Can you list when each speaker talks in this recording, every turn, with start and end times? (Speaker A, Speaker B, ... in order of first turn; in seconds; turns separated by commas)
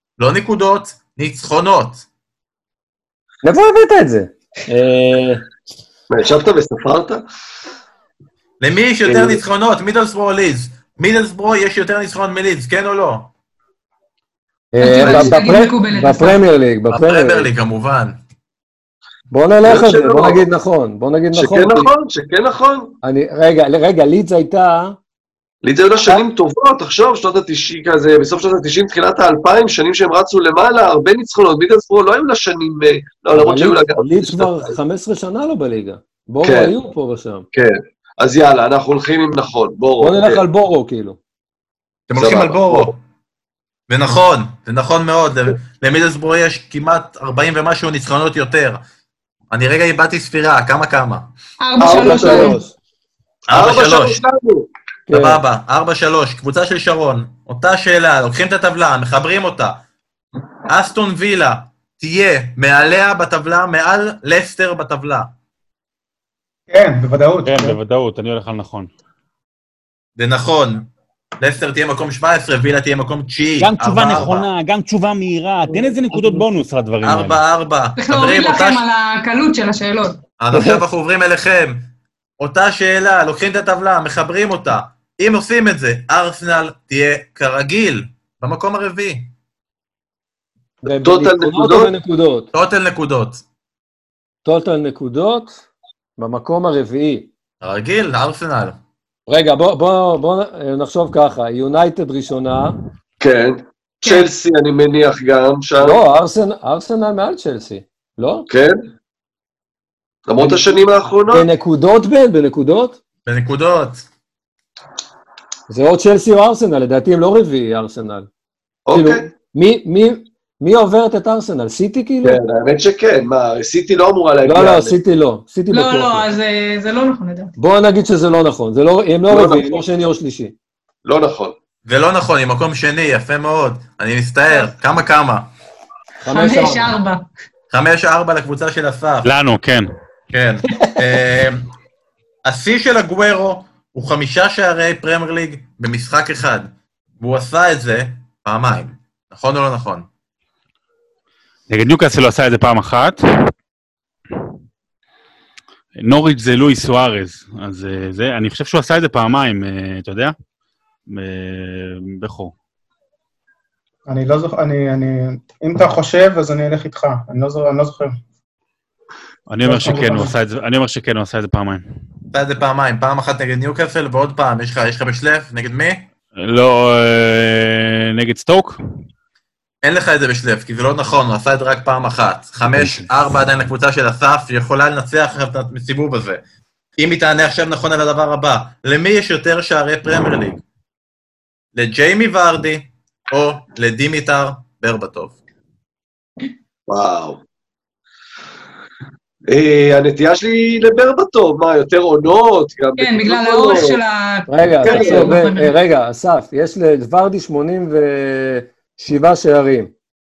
Speaker A: 0.2-2.0, Speaker B: 3.4-5.4, Speaker C: 6.1-7.2, Speaker A: 8.6-13.3, Speaker C: 9.1-9.3, Speaker B: 14.7-17.5, Speaker D: 14.8-16.4, Speaker A: 16.9-18.2, Speaker B: 19.3-21.9, Speaker C: 19.6-20.4, Speaker C: 21.3-22.9, Speaker B: 23.0-25.0, Speaker C: 25.6-34.7, Speaker B: 33.3-37.5, Speaker C: 36.4-36.7, Speaker C: 37.5-40.4, Speaker B: 40.0-41.2, Speaker A: 42.1-43.0, Speaker C: 42.1-42.9, Speaker A: 43.9-48.8, Speaker A: 49.5-51.3, Speaker D: 51.6-52.6, Speaker C: 51.8-52.6, Speaker B: 51.8-52.7, Speaker A: 53.5-54.2, Speaker C: 53.5-54.7, Speaker B: 55.1-55.4, Speaker A: 55.1-59.8, Speaker A: 60.7-65.3, Speaker E: 66.7-67.8, Speaker F: 67.4-68.9, Speaker A: 70.2-70.9, Speaker A: 71.4-74.5, Speaker F: 73.6-77.4, Speaker A: 77.0-78.8, Speaker D: 78.0-80.2, Speaker A: 80.4-81.9, Speaker B: 80.5-80.8, Speaker A: 82.4-89.3, Speaker B: 90.8-92.5, Speaker C: 91.0-91.9, Speaker A: 92.5-93.4, Speaker B: 94.4-95.6, Speaker B: 96.2-97.3, Speaker A: 97.6-98.8, Speaker B: 99.3-102.8, Speaker C: 103.2-106.0, Speaker B: 105.8-108.5, Speaker C: 108.5-108.8, Speaker C: 110.3-111.5, Speaker B: 110.4-110.7, Speaker B: 111.3-113.0, Speaker A: 113.2-114.0, Speaker B: 115.7-118.3, Speaker C: 118.9-119.3, Speaker B: 118.9-122.4, Speaker C: 122.2-125.0, Speaker B: 124.4-126.3, Speaker D: 125.7-127.5, Speaker B: 127.6-130.5, Speaker C: 129.3-129.8, Speaker C: 131.0-131.5, Speaker A: 131.8-135.5, Speaker B: 136.2-136.9, Speaker D: 136.2-137.2, Speaker A: 137.7-139.3, Speaker F: 139.2-139.9, Speaker A: 140.3-141.6, Speaker A: 142.4-150.1, Speaker F: 151.7-153.2, Speaker F: 156.0-160.3, Speaker F: 161.1-162.5, Speaker E: 164.1-168.2, Speaker F: 169.5-171.8, Speaker E: 169.6-170.3, Speaker A: 172.3-176.1, Speaker F: 176.4-178.8, Speaker A: 179.8-186.4, Speaker F: 182.7-183.1, Speaker A: 187.0-190.6, Speaker A: 191.7-195.3, Speaker C: 196.9-197.4, Speaker C: 199.5-204.0, Speaker D: 203.0-205.7, Speaker B: 204.5-209.9, Speaker C: 204.8-205.4